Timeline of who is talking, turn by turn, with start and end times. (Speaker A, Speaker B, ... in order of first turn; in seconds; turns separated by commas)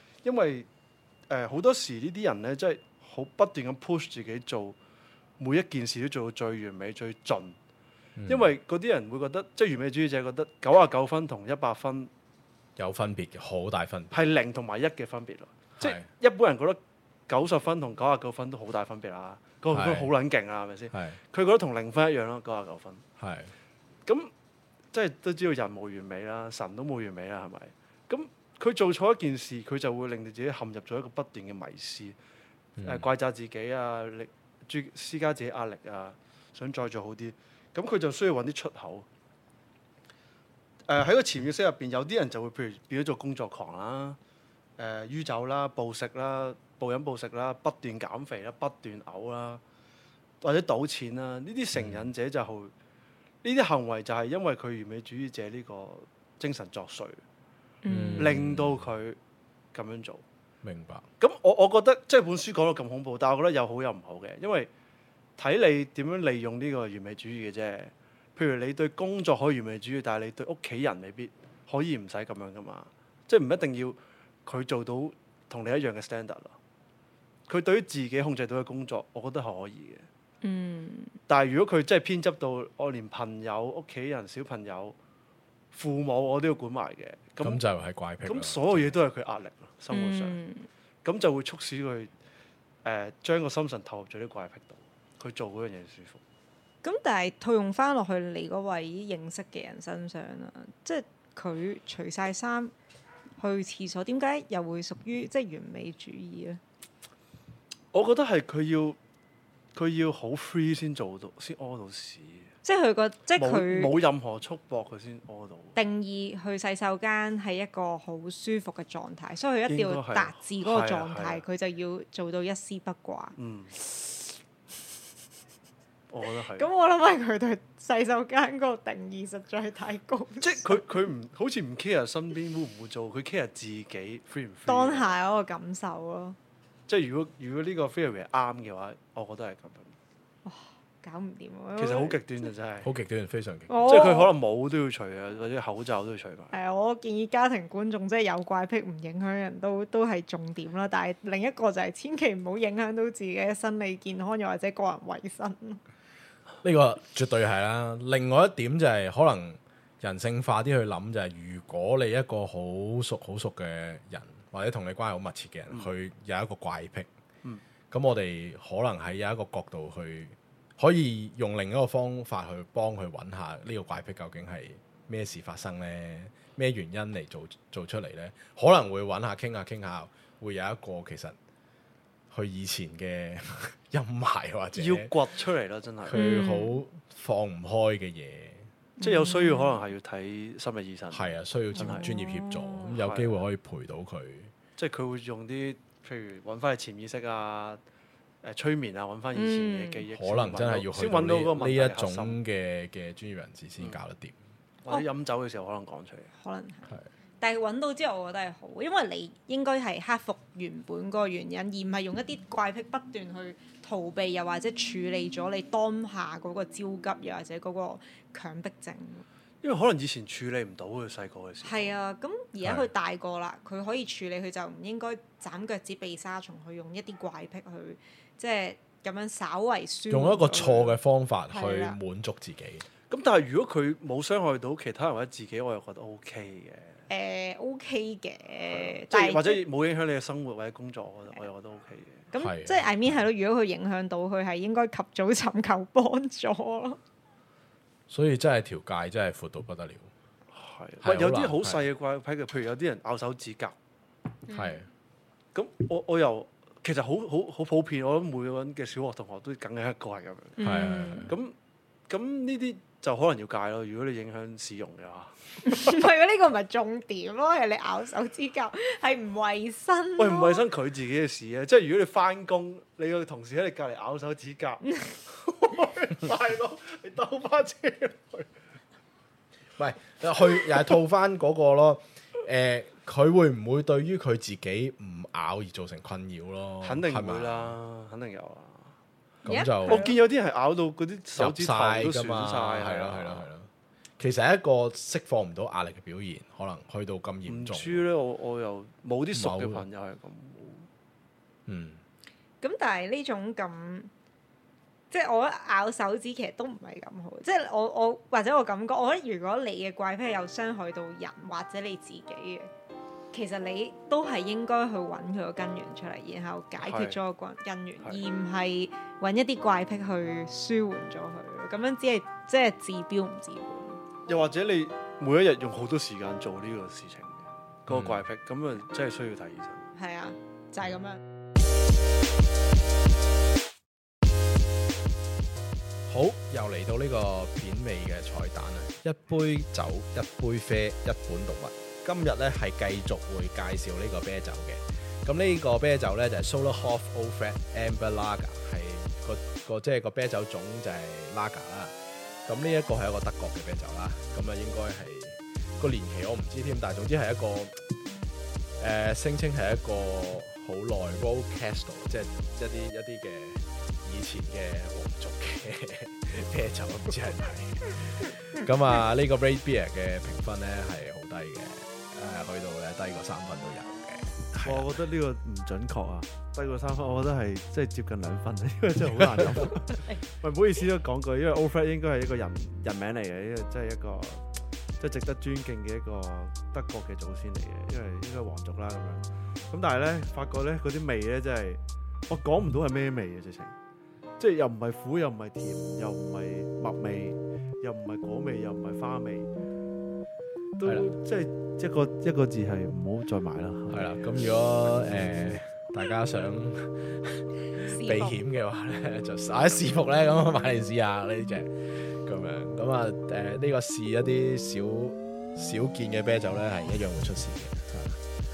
Speaker A: 0.2-0.7, Speaker A: 1.3-4.8, Speaker A: 5.4-7.5, Speaker B: 8.2-8.5, Speaker A: 8.3-12.1, Speaker B: 12.8-14.2, Speaker A: 14.1-23.0, Speaker B: 15.8-16.0, Speaker B: 19.7-20.1, Speaker B: 20.9-21.2, Speaker B: 23.2-23.5, Speaker A: 24.1-24.3, Speaker A: 24.9-32.1, Speaker B: 32.8-33.0, Speaker A: 32.8-39.0, Speaker A: 40.9-44.2, Speaker A: 44.8-49.6, Speaker A: 50.4-52.7, Speaker B: 51.7-52.1, Speaker A: 53.4-57.2, Speaker C: 57.8-58.3, Speaker B: 57.9-58.9, Speaker A: 58.2-59.2, Speaker A: 59.7-60.2, Speaker B: 60.6-61.0, Speaker A: 61.2-64.7, Speaker A: 65.4-76.5, Speaker A: 77.5-80.0, Speaker C: 80.4-81.1, Speaker A: 81.3-85.0, Speaker A: 85.7-87.6, Speaker B: 87.4-89.0, Speaker A: 88.2-90.4, Speaker C: 89.9-90.7, Speaker A: 91.0-92.1, Speaker A: 92.8-96.2, Speaker C: 96.8-102.7, Speaker C: 103.4-106.6, Speaker A: 107.9-109.0, Speaker A: 109.7-112.5, Speaker C: 112.6-113.9, Speaker A: 113.3-115.8, Speaker C: 115.7-123.3, Speaker A: 119.7-121.4, Speaker A: 123.4-123.7, Speaker C: 124.0-124.2, Speaker A: 126.1-126.7, Speaker C: 126.5-130.8, Speaker A: 130.4-135.1, Speaker C: 134.7-136.4, Speaker A: 136.9-139.9, Speaker C: 140.4-142.2, Speaker A: 141.8-142.9, Speaker B: 142.8-143.9, Speaker C: 143.7-144.3, Speaker A: 143.8-146.5, Speaker C: 146.5-155.8, Speaker B: 156.6-167.1, Speaker B: 167.9-181.3, Speaker B: 182.3-185.1, Speaker A: 184.7-186.2, Speaker B: 186.0-188.7, Speaker C: 186.1-186.8, Speaker C: 189.0-189.8, Speaker A: 189.0-192.1, Speaker B: 191.1-194.5, Speaker C: 191.7-192.9, Speaker A: 192.9-193.4, Speaker A: 194.8-197.8, Speaker A: 198.4-202.4, Speaker C: 199.3-200.0, Speaker B: 200.1-204.3, Speaker A: 204.8-206.3, Speaker C: 206.4-206.9, Speaker C: 207.4-219.2, Speaker A: 219.6-221.9, Speaker C: 221.6-231.0, Speaker B: 222.6-222.9, Speaker B: 230.1-232.8, Speaker C: 231.5-232.0, Speaker A: 233.1-237.0, Speaker C: 237.1-239.6, Speaker A: 238.7-242.3, Speaker C: 242.3-247.0, Speaker B: 242.4-243.2, Speaker B: 248.1-250.1, Speaker A: 250.5-253.7, Speaker B: 251.0-251.8, Speaker C: 254.5-254.8, Speaker B: 254.5-254.9, Speaker A: 255.5-260.6, Speaker C: 260.6-261.3, Speaker B: 260.6-261.3, Speaker A: 261.3-261.5, Speaker A: 262.1-265.3, Speaker C: 265.6-270.6, Speaker A: 270.2-278.5, Speaker C: 274.9-275.1, Speaker B: 279.8-287.8, Speaker A: 286.8-288.9, Speaker B: 289.4-290.0, Speaker C: 289.4-290.2, Speaker A: 289.9-293.5, Speaker B: 291.4-298.0, Speaker A: 297.5-300.9, Speaker B: 299.3-299.9, Speaker B: 301.7-302.0, Speaker C: 302.6-304.1, Speaker C: 305.1-312.7, Speaker C: 313.3-324.0, Speaker A: 316.8-317.2, Speaker A: 324.3-329.9, Speaker B: 327.9-328.2, Speaker C: 329.9-331.2, Speaker B: 336.1-351.9, Speaker B: 352.4-357.8, Speaker B: 358.8-375.0, Speaker A: 374.6-384.4, Speaker A: 385.0-393.7, Speaker A: 394.4-399.5, Speaker A: 400.8-404.2, Speaker B: 403.9-418.2, Speaker C: 407.8-408.4